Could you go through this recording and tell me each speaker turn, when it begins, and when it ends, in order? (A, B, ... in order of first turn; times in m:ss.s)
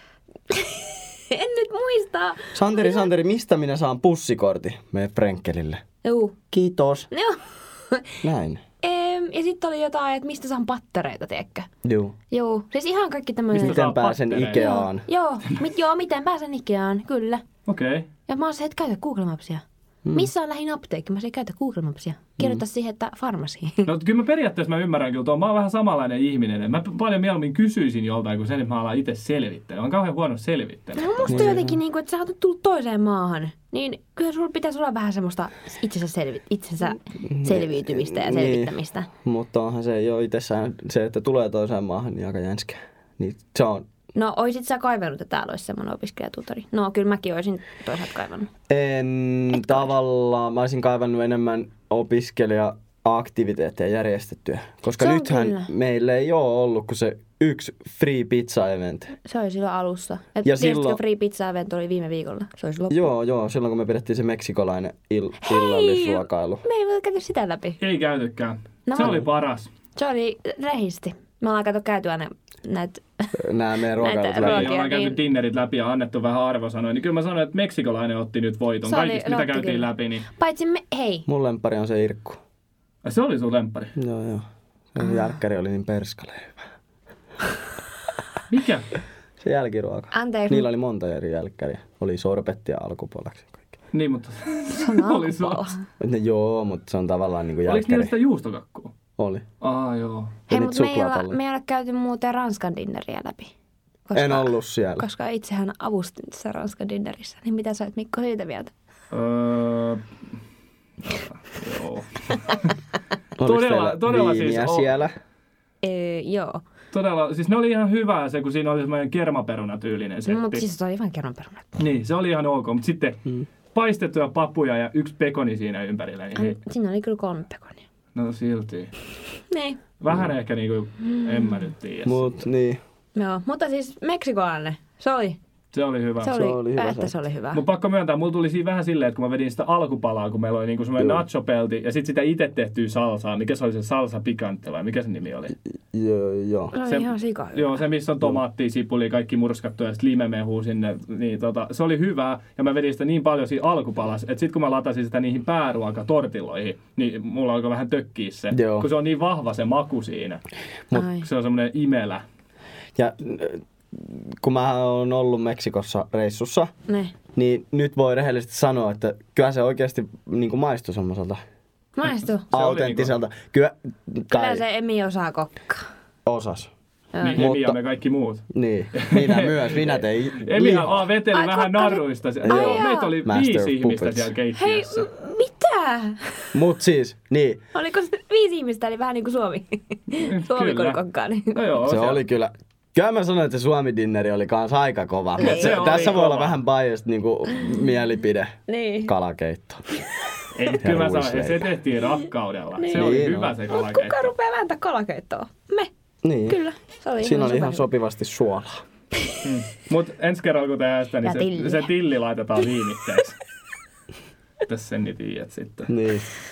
0:00.5-0:03.1 A
0:02.5-0:05.8 B
0:06.0-0:06.4 A
0:06.5-0:07.1 B
0:07.1-0:08.2 A
0:08.2-0:08.6 B
0:08.8-0:11.7 A
0:11.8-0:12.2 B
0:12.3-0:13.8 A
0:13.5-0:15.1 B
0:13.6-0:14.8 C
0:14.5-0:17.4 A
0:17.6-0:18.1 C
0:18.3-0:23.9 A
0:23.8-0:31.6 C
0:31.0-0:39.1 A
0:31.3-0:31.8 B
0:37.2-0:43.9 B
0:44.1-0:48.5 A
0:48.7-0:59.1 B
0:49.5-0:49.9 A
0:55.0-0:55.7 A
0:59.1-1:03.0 A
1:00.4-1:01.0 B
1:02.9-1:06.6 B
1:05.4-1:07.8 A
1:07.8-1:09.7 C
1:08.9-1:09.2 A
1:10.0-1:13.3 A
1:13.3-1:14.7 B
1:13.9-1:15.2 A
1:14.4-1:20.3 C
1:18.8-1:21.2 A
1:21.3-1:22.4 B
1:23.0-1:24.0 C
1:24.0-1:26.7 B
1:28.5-1:28.9 C
1:29.4-1:33.7 B
1:30.1-1:30.7 A
1:33.9-1:35.7 C
1:34.7-1:35.8 A
1:36.0-1:38.1 B
1:37.7-1:38.9 C
1:39.2-1:39.4 B
1:39.6-1:40.4 C
1:40.5-1:43.5 A
1:40.5-1:41.4 B
1:44.1-1:48.7 A
1:44.1-1:45.0 B
1:49.1-1:50.0 C
1:51.0-1:52.7 C
1:53.4-1:55.1 B
1:53.4-1:55.0 C
1:55.8-1:56.6 A
1:56.9-2:00.6 C
2:00.2-2:01.8 A
2:01.8-2:06.6 C
2:06.3-2:07.8 A
2:08.1-2:08.9 C
2:09.5-2:09.8 A
2:10.0-2:12.4 C
2:11.1-2:11.7 A
2:12.0-2:12.8 B
2:13.1-2:15.4 A
2:15.7-2:16.4 C
2:16.2-2:17.6 A
2:16.3-2:17.2 B
2:17.5-2:25.5 C
2:25.9-2:26.8 B
2:26.7-2:27.8 A
2:26.8-2:40.4 C
2:38.5-2:38.9 B
2:40.9-2:41.3 A
2:41.1-2:42.2 C
2:43.0-2:46.7 B
2:46.9-2:47.1 A
2:47.3-2:51.4 B
2:52.0-2:52.4 A
2:52.5-2:53.1 C
2:52.5-2:54.6 B
2:54.3-2:55.9 A
2:56.2-2:56.7 B
2:57.1-2:57.4 A
2:57.2-3:05.1 C
2:57.4-2:57.8 B
2:58.5-3:01.0 B
3:01.3-3:03.2 A
3:02.4-3:04.3 B
3:04.5-3:06.6 A
3:06.5-3:07.6 B
3:07.7-3:11.8 A
3:10.1-3:11.0 C
3:11.5-3:12.2 C
3:11.8-3:19.8 B
3:15.4-3:16.6 C
3:15.4-3:15.7 A
3:18.7-3:19.1 A
3:20.5-3:24.3 C
3:20.8-3:21.7 B
3:22.8-3:25.9 A
3:22.9-3:23.6 B
3:26.2-3:26.6 B
3:26.5-3:27.9 A
3:27.2-3:28.8 B
3:29.4-3:33.4 C
3:31.2-3:31.9 A
3:34.6-3:35.9 C
3:35.9-3:36.3 B